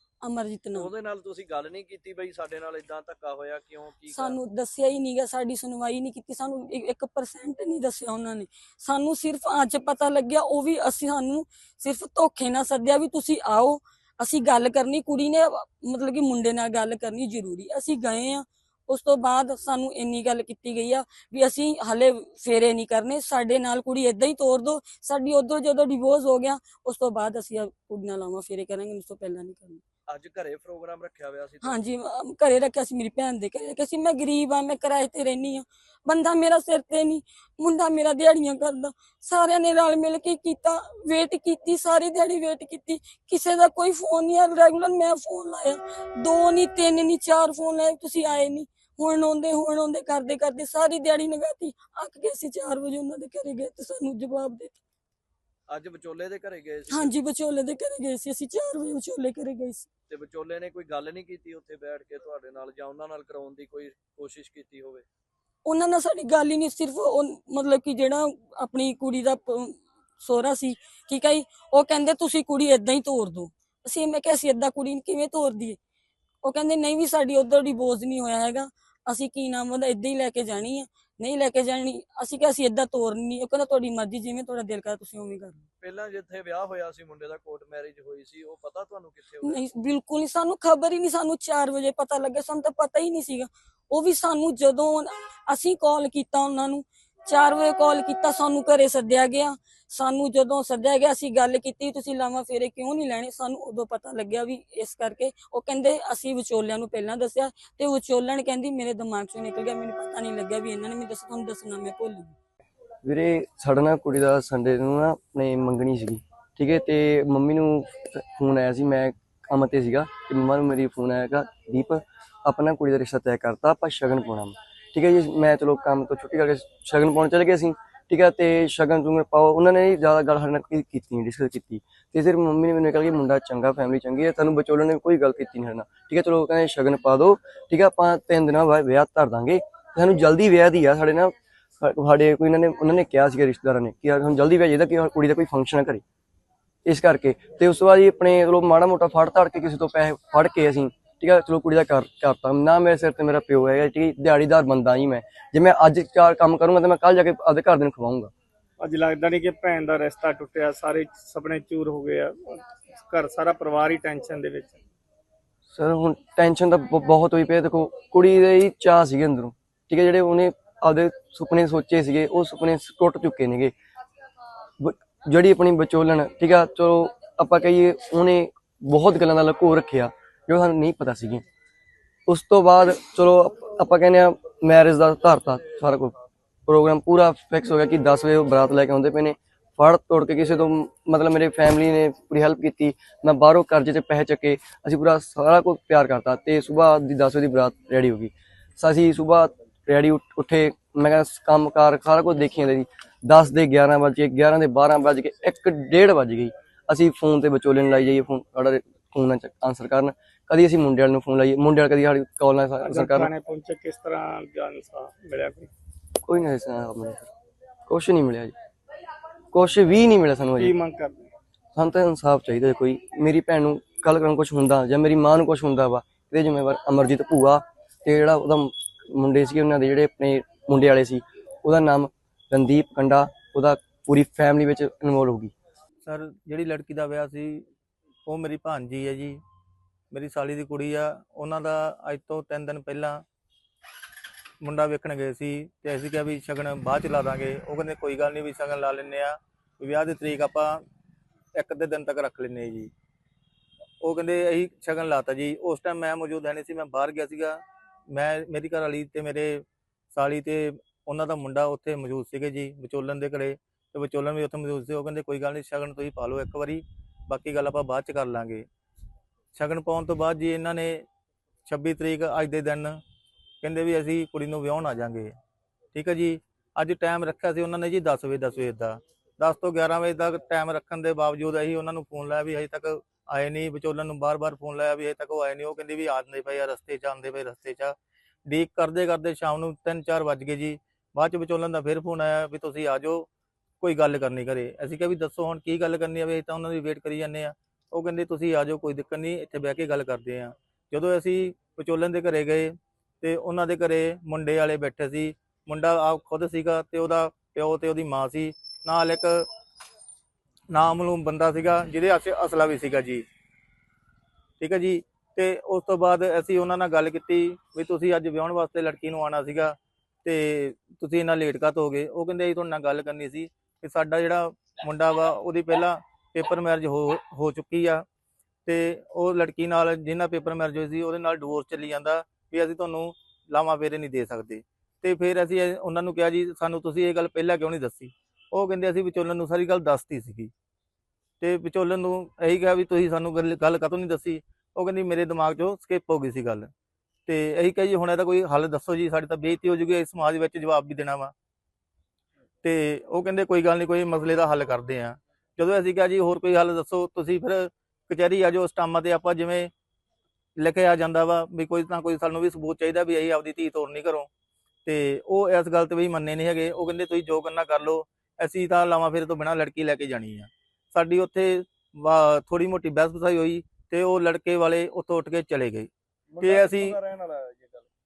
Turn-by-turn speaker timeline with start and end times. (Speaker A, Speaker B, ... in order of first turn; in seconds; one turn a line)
Speaker A: 0.2-0.9
Speaker B: 0.8-4.4
Speaker A: 4.1-29.8
Speaker B: 30.1-31.8
Speaker A: 31.6-54.8
Speaker B: 55.7-57.1
Speaker A: 56.9-59.9
Speaker B: 60.1-65.0
Speaker A: 65.6-75.8
Speaker A: 76.4-85.7
Speaker B: 85.8-89.6
Speaker A: 89.4-112.3
Speaker C: 113.0-146.0
Speaker C: 146.8-158.3
Speaker D: 158.8-164.8
Speaker C: 165.7-173.7
Speaker C: 174.8-181.4
Speaker C: 182.3-186.1
Speaker C: 186.7-213.3
Speaker D: 212.8-215.7
Speaker C: 216.2-217.3
Speaker C: 217.9-218.5
Speaker C: 219.5-220.8
Speaker D: 220.6-221.3
Speaker C: 221.7-235.5
Speaker E: 236.0-237.6
Speaker E: 238.2-239.4
Speaker E: 240.1-243.2
Speaker E: 244.6-250.8
Speaker E: 251.5-252.9
Speaker E: 254.0-268.6
Speaker E: 269.5-271.0
Speaker E: 271.6-273.0
Speaker E: 273.6-275.3
Speaker E: 275.9-287.9
Speaker E: 288.5-293.3
Speaker E: 293.8-309.5
Speaker E: 310.7-313.2
Speaker E: 314.6-328.0
Speaker E: 328.6-340.5
Speaker E: 341.4-346.7
Speaker E: 347.3-351.3
Speaker E: 352.6-359.7
Speaker E: 360.6-364.3
Speaker E: 364.8-375.9
Speaker B: 376.3-377.9
Speaker E: 376.4-377.0